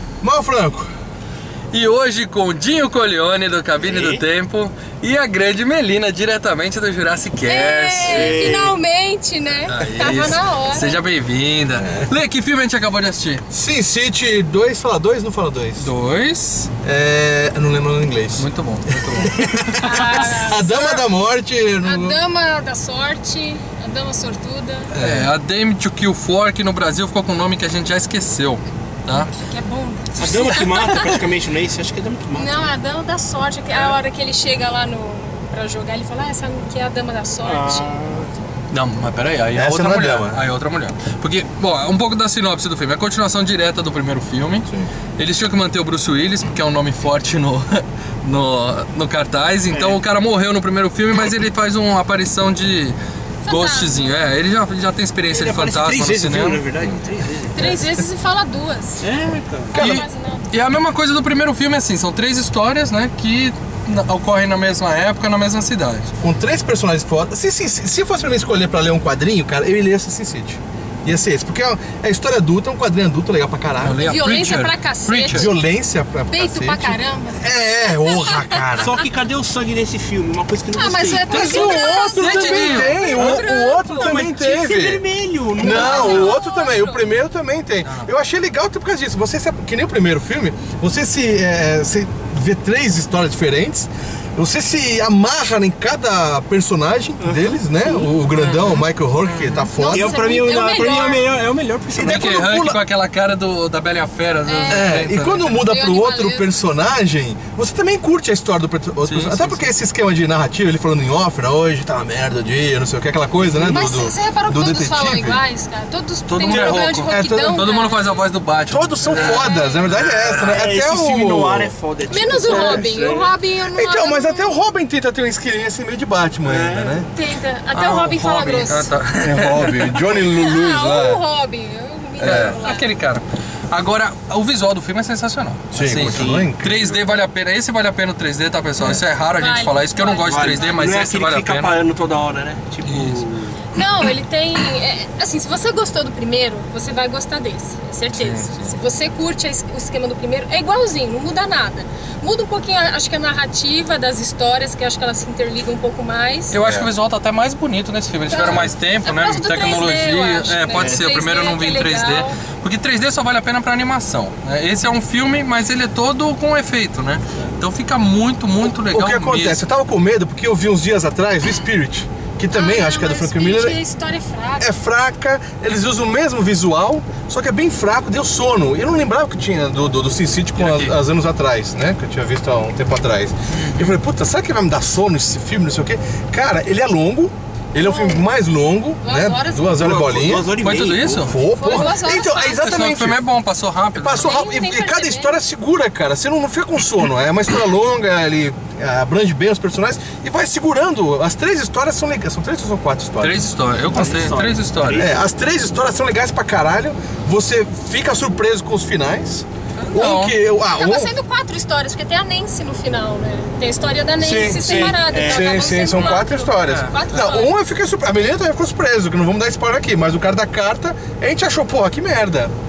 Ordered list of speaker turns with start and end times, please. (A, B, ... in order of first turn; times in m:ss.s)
0:00.2-0:00.9 A
0:01.7-0:08.5 B
0:03.8-0:04.2 C
0:07.4-0:11.0 D
0:08.0-0:08.8 C
0:09.7-0:13.4 B
0:09.9-0:10.2 A
0:13.5-0:15.9 A
0:15.8-0:16.7 B
0:16.8-0:22.2 A
0:18.3-0:19.6 B
0:19.8-0:21.0 D
0:21.8-0:24.9 D
0:24.9-0:29.3 B
0:24.9-0:25.3 A
0:29.1-0:31.2 D
0:30.1-0:32.7 C
0:32.3-0:38.0 D
0:37.4-0:38.3 C
0:38.7-0:56.6 B
0:39.5-0:40.4 A
0:49.7-0:50.0 C
0:53.4-0:54.1 D
0:55.3-0:57.8 C
0:57.5-0:59.0 D
0:59.0-0:59.8 C
0:59.7-1:00.5 D
0:59.7-1:00.0 A
0:59.7-1:06.1 B
1:06.2-1:14.0 A
1:13.8-1:15.5 B
1:14.0-1:15.5 D
1:15.3-1:19.0 A
1:16.3-1:18.7 D
1:18.8-1:22.0 C
1:20.7-1:24.2 D
1:21.3-1:25.0 A
1:22.0-1:23.0 B
1:23.0-1:26.3 C
1:25.6-1:40.2 A
1:25.6-1:27.0 D
1:27.8-1:28.1 B
1:37.2-1:38.0 C
1:38.3-1:39.7 B
1:39.8-1:41.3 D
1:39.9-1:42.3 C
1:41.9-1:42.8 A
1:42.0-1:45.6 B
1:44.4-1:44.9 D
1:44.7-1:55.4 A
1:45.6-1:46.7 D
1:49.0-1:49.7 B
1:53.4-1:53.8 C
1:53.7-1:58.2 D
1:56.3-2:00.6 B
1:56.5-1:57.6 A
1:58.7-2:01.7 A
1:59.1-1:59.4 C
1:59.1-1:59.9 D
2:00.3-2:03.3 C
2:02.1-2:04.6 D
2:02.5-2:02.9 A
2:03.7-2:07.1 A
2:06.4-2:07.0 C
2:07.1-2:08.9 D
2:07.7-2:10.0 B
2:09.2-2:11.2 A
2:10.2-2:12.8 D
2:12.2-2:12.6 A
2:12.2-2:21.8 B
2:15.7-2:16.7 A
2:15.8-2:17.0 C
2:18.8-2:19.0 A
2:19.3-2:21.0 D
2:20.2-2:23.6 C
2:22.8-2:23.2 B
2:23.7-2:36.6 D
2:28.1-2:28.7 B
2:36.5-2:49.6 B
2:36.6-2:36.9 A
2:38.3-2:42.4 D
2:40.8-2:41.1 C
2:48.6-2:53.8 A
2:52.5-2:54.7 D
2:54.6-3:10.5 A
3:00.5-3:00.9 B
3:03.5-3:04.0 B
3:07.8-3:08.2 D
3:09.0-3:09.7 D
3:09.8-3:11.4 C
3:10.6-3:11.3 B
3:11.2-3:13.2 A
3:11.4-3:12.8 D
3:12.5-3:14.4 B
3:13.9-3:23.4 A
3:14.2-3:15.4 D
3:23.2-3:25.1 B
3:23.9-3:25.2 C
3:25.0-3:31.1 A
3:29.8-3:30.4 B
3:30.7-3:37.5 D
3:34.2-3:35.8 C
3:35.2-3:42.5 A
3:35.9-3:36.9 B